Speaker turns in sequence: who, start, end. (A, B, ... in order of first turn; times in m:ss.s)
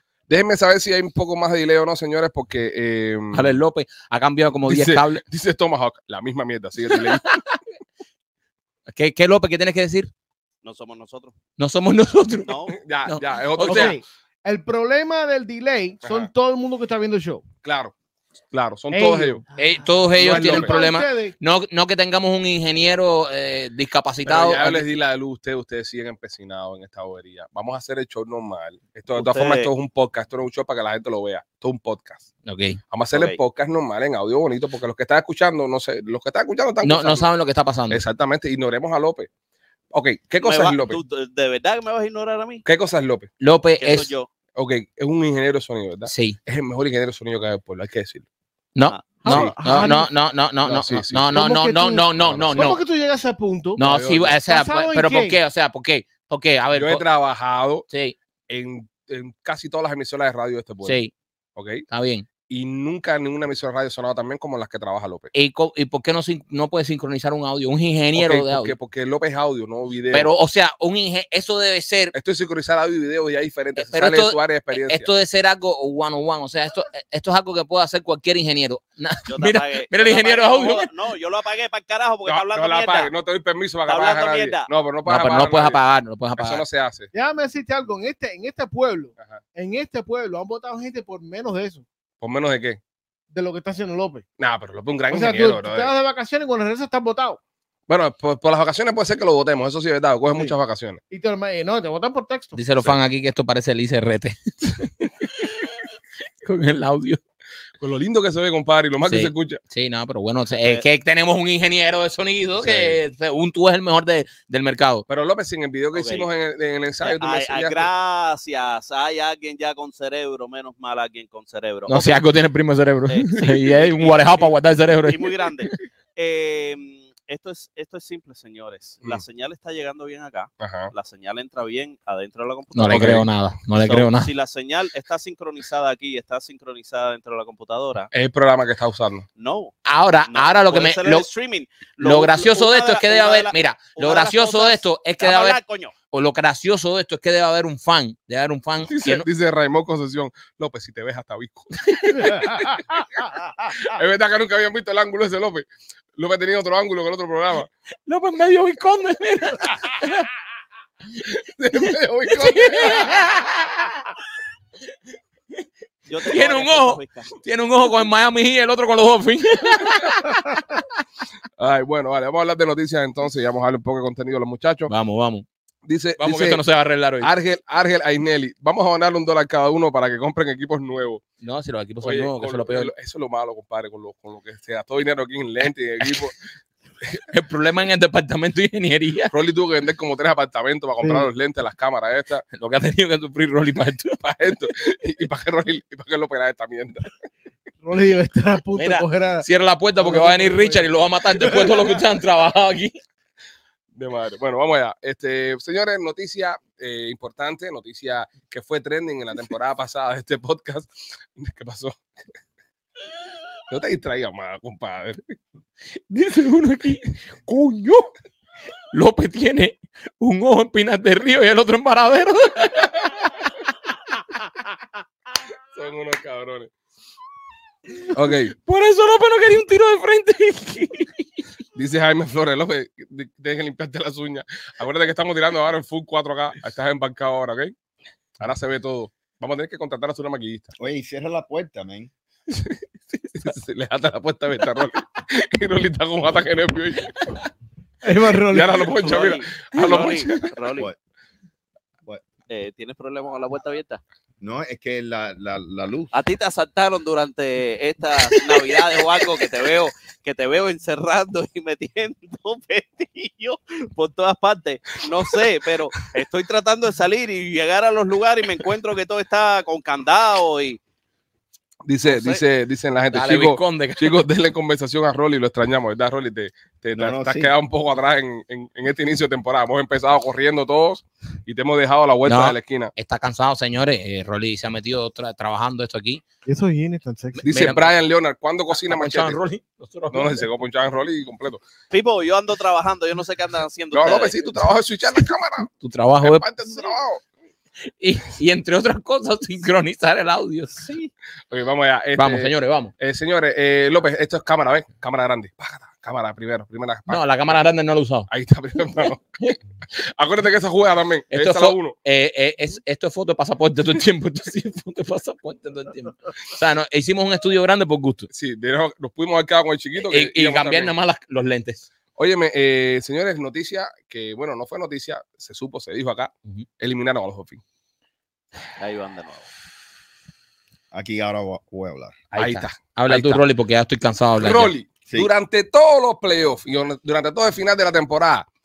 0:00.3-0:03.6 A
0:03.3-0:05.2 B
0:04.6-0:07.4 A
0:08.9-0:10.1 B
0:10.6-0:11.4 C
0:11.6-0:13.9 B
0:12.4-0:12.8 C
0:12.7-0:14.0 A
0:13.7-0:17.4 D
0:16.0-0:16.3 A
0:17.6-0:17.9 A
0:18.5-0:19.4 A
0:18.9-0:21.4 D
0:19.6-0:24.8 B
0:20.2-0:20.9 A
0:24.2-0:32.3 A
0:29.2-0:29.7 C
0:32.4-0:32.8 B
0:32.9-0:37.3 A
0:33.1-0:33.4 C
0:36.8-0:38.0 B
0:37.9-0:39.3 A
0:39.9-0:41.0 A
0:40.4-0:42.6 C
0:42.6-0:43.3 A
0:43.4-0:44.1 B
0:43.8-0:44.3 C
0:44.6-0:48.2 A
0:46.1-0:46.4 B
0:48.8-0:52.8 B
0:48.9-0:49.2 C
0:49.2-0:50.1 D
0:49.3-0:49.9 A
0:50.6-0:51.5 A
0:51.4-0:53.9 D
0:52.2-0:52.7 A
0:53.8-0:57.0 B
0:53.8-0:54.4 A
0:54.4-0:55.4 D
0:56.7-0:57.9 A
0:57.9-0:58.1 B
0:58.5-1:01.0 A
1:00.8-1:01.1 B
1:01.6-1:01.8 A
1:01.9-1:02.3 B
1:02.5-1:05.3 A
1:05.3-1:08.7 B
1:08.1-1:10.3 A
1:10.1-1:12.1 B
1:12.1-1:15.1 A
1:13.8-1:20.9 B
1:19.3-1:23.1 C
1:22.3-1:25.8 A
1:23.9-1:24.7 C
1:25.1-1:26.6 B
1:26.4-1:27.1 A
1:27.1-1:31.8 D
1:32.2-1:32.8 A
1:33.3-1:34.2 D
1:34.4-1:35.9 A
1:35.1-1:37.4 D
1:37.9-1:41.0 A
1:41.1-1:42.6 D
1:42.5-1:45.7 B
1:46.4-1:47.2 B
1:47.8-1:49.6 A
1:49.1-1:55.0 B
1:50.5-1:50.8 C
1:52.6-1:53.0 A
1:55.1-1:57.9 A
1:55.9-1:56.3 C
1:57.0-2:02.2 C
2:01.9-2:05.3 B
2:03.1-2:13.2 C
2:10.6-2:10.9 A
2:12.8-2:14.3 B
2:12.9-2:13.2 A
2:13.8-2:18.1 C
2:18.1-2:19.3 A
2:19.4-2:19.7 C
2:19.9-2:21.3 B
2:20.3-2:25.9 C
2:22.0-2:29.3 B
2:28.9-2:32.8 A
2:31.9-2:32.4 B
2:33.7-2:35.6 A
2:36.2-2:37.7 A
2:38.1-2:40.3 B
2:41.4-2:43.2 A
2:41.8-2:44.0 B
2:46.1-2:47.4 C
2:46.2-2:50.8 B
2:51.6-2:54.9 A
2:54.9-2:55.4 B
2:55.9-2:56.6 A
2:56.2-2:57.3 B
2:57.2-3:01.2 A
3:01.4-3:02.9 B
3:02.0-3:06.4 A
3:07.3-3:09.3 B
3:09.3-3:12.4 A
3:11.0-3:11.3 D
3:12.6-3:14.2 B
3:14.2-3:17.1 A
3:17.8-3:19.4 D
3:18.8-3:22.9 B
3:20.0-3:22.0 D
3:23.9-3:32.0 A
3:33.7-3:35.4 A
3:36.1-3:38.1 B
3:38.9-3:43.3 B
3:45.7-3:46.7 A
3:48.1-3:48.6 A
3:48.6-3:51.2 B
3:51.8-3:57.7 A
3:58.4-4:00.7 A
4:00.8-4:02.1 E
4:03.3-4:07.2 A
4:08.0-4:08.9 D
4:08.5-4:10.3 A
4:09.0-4:10.9 C
4:09.8-4:10.4 B
4:12.5-4:14.0 C
4:14.4-4:16.1 E
4:16.1-4:30.8 C
4:31.9-4:42.9 A
4:32.0-4:32.4 C
4:33.1-4:34.2 B
4:36.9-4:37.5 E
4:42.2-4:46.2 B
4:46.5-4:47.4 D
4:47.4-4:47.9 B
4:47.4-4:49.4 A
4:48.7-4:50.5 B
4:50.1-4:51.6 A
4:51.9-4:54.4 C
4:53.9-4:55.7 A
4:55.7-4:56.4 B
4:56.2-4:57.2 A
4:58.0-5:00.9 B
5:00.8-5:01.1 C
5:01.5-5:07.2 A
5:02.2-5:02.9 B
5:07.1-5:08.3 B
5:08.3-5:09.2 A
5:09.0-5:09.5 B
5:10.0-5:11.9 A
5:11.3-5:18.3 B
5:18.3-5:20.9 A
5:20.0-5:21.8 B
5:22.2-5:27.6 A
5:28.8-5:29.5 C
5:30.9-5:32.2 E
5:32.3-5:34.7 B
5:32.3-5:33.4 A
5:34.4-5:38.4 A